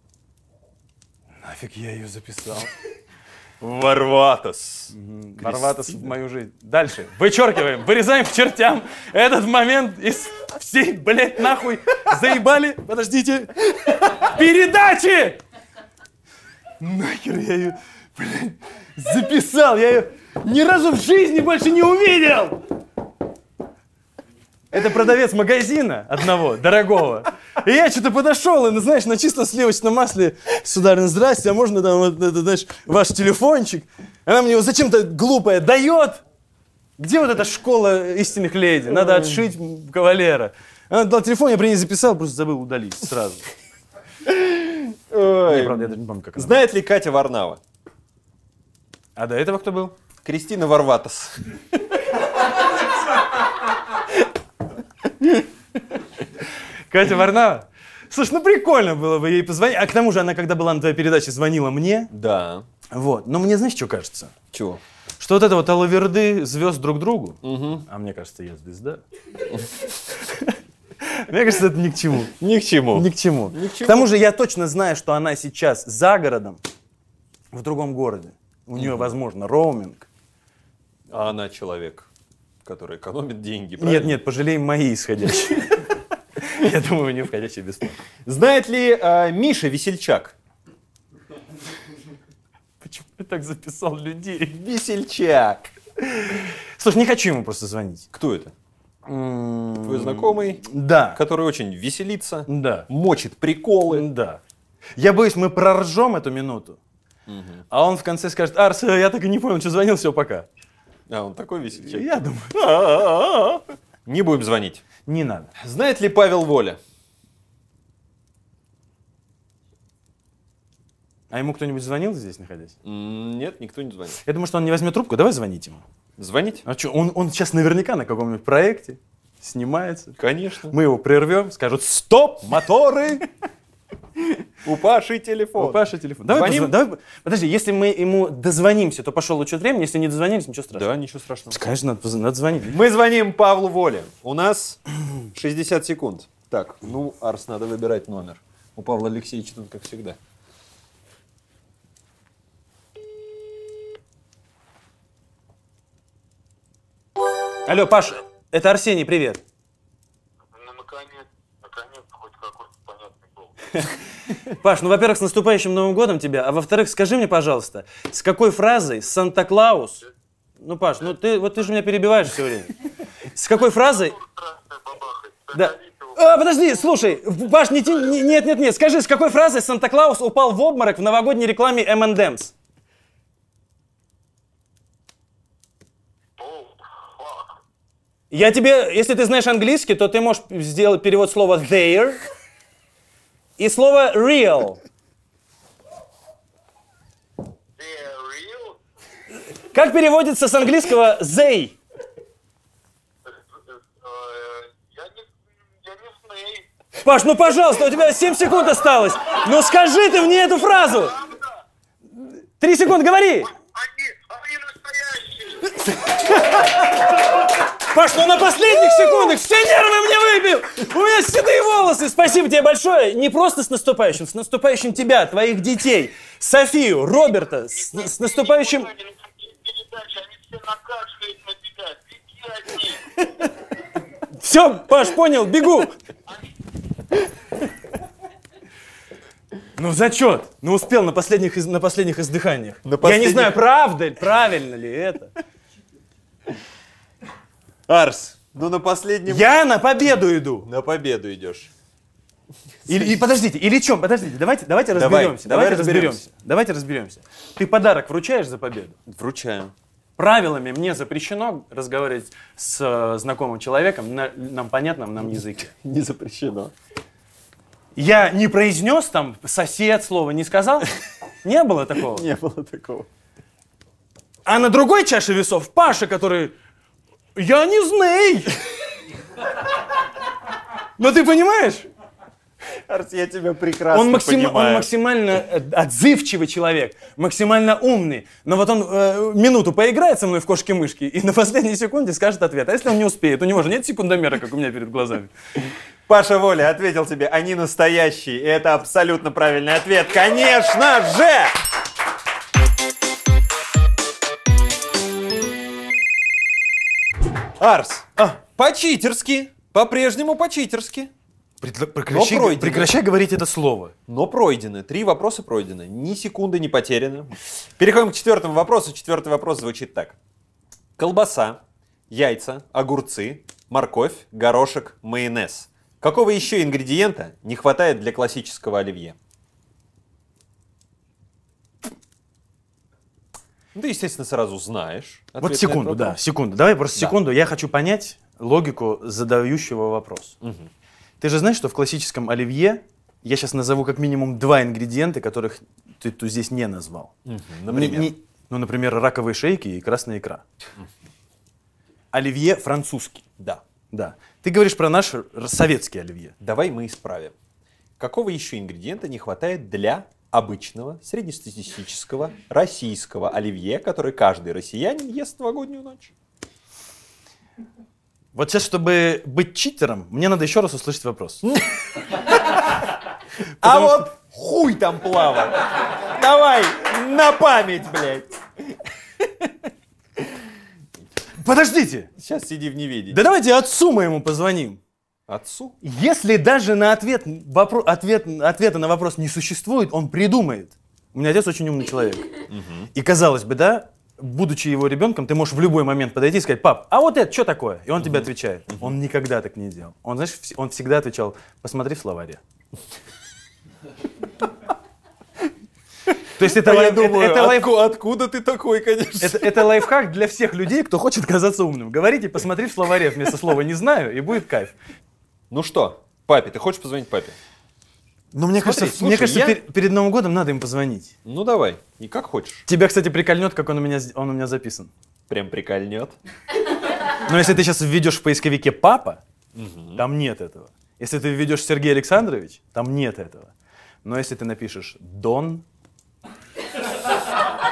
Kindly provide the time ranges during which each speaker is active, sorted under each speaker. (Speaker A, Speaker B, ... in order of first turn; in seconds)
Speaker A: 1.4-2.7, 4.9-15.4, 16.8-22.6, 24.7-36.2, 37.0-43.5, 45.5-46.6, 49.1-49.9, 56.9-62.1, 62.9-64.3, 65.2-69.0, 70.1-72.3, 72.9-76.6, 77.5-80.1, 83.8-85.9, 86.4-88.0, 92.8-94.6, 96.3-98.1, 99.0-101.2, 102.5-102.9, 103.9-104.4, 105.0-106.8, 107.7-110.5, 111.8-112.8, 115.0-115.5, 121.3-122.7, 124.2-125.8, 126.7-133.2, 135.6-140.9, 141.5-142.8, 157.7-159.4, 164.4-170.0, 170.6-172.7, 173.3-174.2, 175.5-182.5, 188.3-192.2, 193.6-194.8, 199.7-201.8, 207.0-211.2, 212.6-213.5, 215.9-228.9, 234.4-235.9, 239.8-245.3, 249.3-250.7, 252.9-258.9, 260.2-265.7, 267.9-270.9, 271.4-272.3, 274.4-276.5, 277.4-278.6, 281.0-281.9, 283.9-295.3, 311.6-313.9, 335.4-340.4, 341.2-347.1, 347.7-350.4, 352.1-353.2, 353.9-356.3, 368.3-371.4, 373.6-374.1, 381.4-382.1, 383.1-384.8, 385.8-392.4, 392.9-402.4, 406.4-407.7, 409.2-414.7, 418.3-421.1, 422.7-424.9, 427.2-429.2, 429.9-433.5, 434.0-435.6
Speaker B: 3.6-6.1, 38.9-39.5, 44.2-47.6, 50.2-52.4, 62.1-62.6, 64.5-64.8, 67.4-67.8, 72.4-74.1, 78.8-79.1, 81.1-82.1, 82.6-84.1, 88.2-90.3, 94.5-95.8, 98.1-98.5, 99.8-104.1, 107.3-107.6, 111.1-114.8, 115.5-116.8, 122.8-124.2, 126.2-126.7, 130.2-130.8, 134.6-136.7, 140.7-141.6, 142.7-150.2, 242.8-243.6, 247.9-249.4, 250.6-251.7, 254.9-256.2, 259.1-259.7, 265.8-266.7, 272.0-273.1, 282.9-284.9, 296.1-301.6, 307.6-311.1, 312.1-312.9, 314.1-320.2, 321.0-329.2, 333.7-336.2, 340.4-340.7, 347.2-348.1, 356.4-357.3, 358.0-366.1, 371.4-372.7, 373.6-379.5, 382.2-383.2, 385.3-385.8, 392.5-392.9, 398.0-398.9, 406.4-409.8, 415.5-417.4, 418.6-419.6, 421.2-422.6, 425.3-426.1, 429.5-430.0
Speaker C: 160.5-163.5, 173.9-176.2, 186.4-187.5, 197.8-198.8, 204.0-205.3, 205.8-206.7, 213.8-215.8, 227.8-233.2